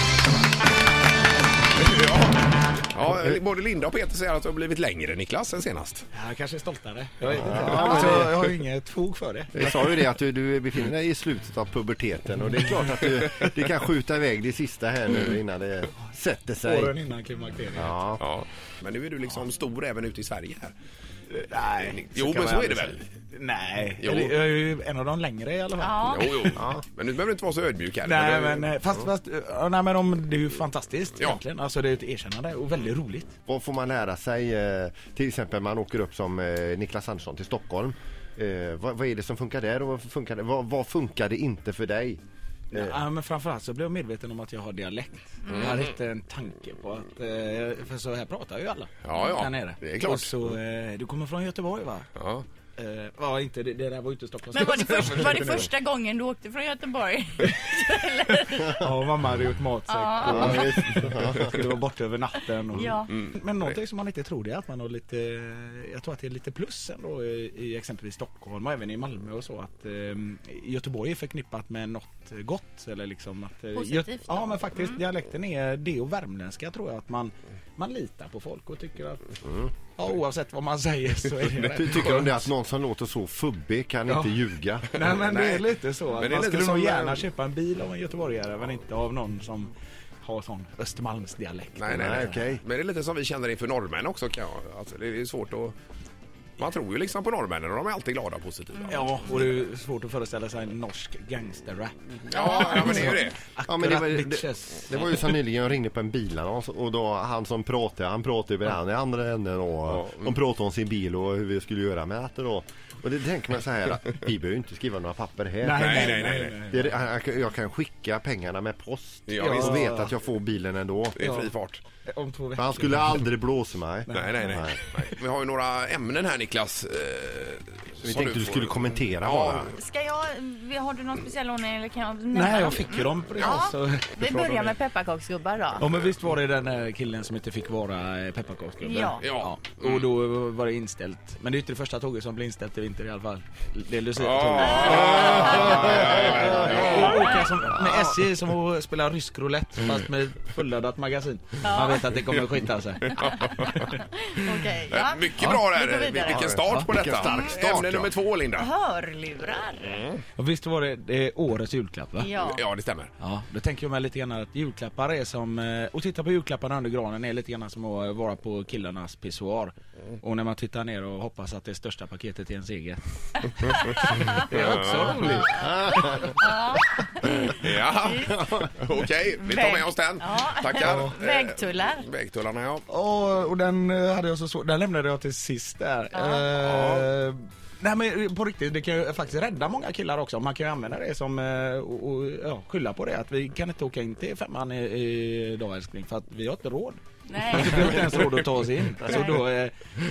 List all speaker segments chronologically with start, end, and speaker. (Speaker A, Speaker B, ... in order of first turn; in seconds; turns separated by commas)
Speaker A: 1.8-2.4, Speaker A: 2.9-6.0, Speaker B: 6.1-9.9, Speaker C: 7.3-8.3, Speaker D: 7.7-8.1, Speaker A: 7.9-8.2, Speaker C: 9.5-16.9, Speaker B: 16.6-18.0, Speaker C: 17.7-18.2, Speaker A: 18.2-20.7, Speaker B: 21.3-26.6, Speaker A: 21.8-23.0, Speaker A: 24.0-24.4, Speaker D: 25.8-26.5, Speaker A: 26.0-28.7, Speaker B: 28.0-33.4, Speaker C: 33.5-42.2, Speaker B: 42.7-52.1, Speaker C: 42.7-43.0, Speaker D: 45.4-45.7, Speaker A: 49.0-50.3, Speaker A: 52.1-52.4, Speaker B: 52.8-55.7, Speaker D: 54.5-58.9, Speaker B: 58.5-82.5, Speaker D: 59.9-60.8, Speaker C: 60.2-61.6, Speaker D: 62.7-63.1, Speaker A: 63.1-63.7, Speaker D: 73.7-75.0, Speaker C: 81.6-85.0, Speaker B: 84.1-89.7, Speaker A: 85.1-87.2, Speaker B: 90.2-92.4, Speaker A: 91.7-95.7, Speaker C: 91.9-92.6, Speaker A: 96.6-99.0, Speaker B: 98.9-104.9, Speaker A: 102.2-103.4, Speaker D: 102.3-102.8, Speaker C: 103.7-121.2, Speaker A: 109.9-110.3, Speaker B: 115.6-117.0, Speaker A: 115.8-116.5, Speaker A: 119.3-119.8, Speaker B: 119.4-120.1, Speaker A: 121.1-121.8, Speaker B: 121.2-123.3, Speaker C: 122.5-124.8, Speaker B: 124.0-124.9, Speaker A: 124.1-129.7, Speaker C: 128.0-129.7, Speaker D: 129.7-135.8, Speaker B: 132.3-134.8, Speaker B: 135.8-153.7, Speaker D: 138.8-139.3, Speaker A: 139.2-140.1, Speaker A: 144.2-147.5, Speaker D: 144.6-146.4, Speaker D: 151.6-152.0, Speaker A: 153.0-153.8, Speaker D: 153.8-157.5, Speaker A: 154.9-158.7, Speaker B: 155.4-155.6, Speaker C: 156.3-158.1, Speaker D: 158.6-160.0, Speaker A: 159.8-160.2, Speaker B: 160.4-162.3, Speaker D: 162.2-162.6, Speaker A: 162.4-163.1, Speaker B: 163.2-176.5, Speaker A: 174.5-175.3, Speaker D: 175.4-178.5, Speaker C: 175.6-176.0, Speaker A: 177.2-182.8, Speaker D: 179.4-182.1, Speaker B: 180.8-181.1, Speaker B: 182.9-199.7, Speaker D: 186.1-186.5, Speaker A: 186.6-187.1, Speaker D: 197.2-198.2, Speaker D: 199.0-199.4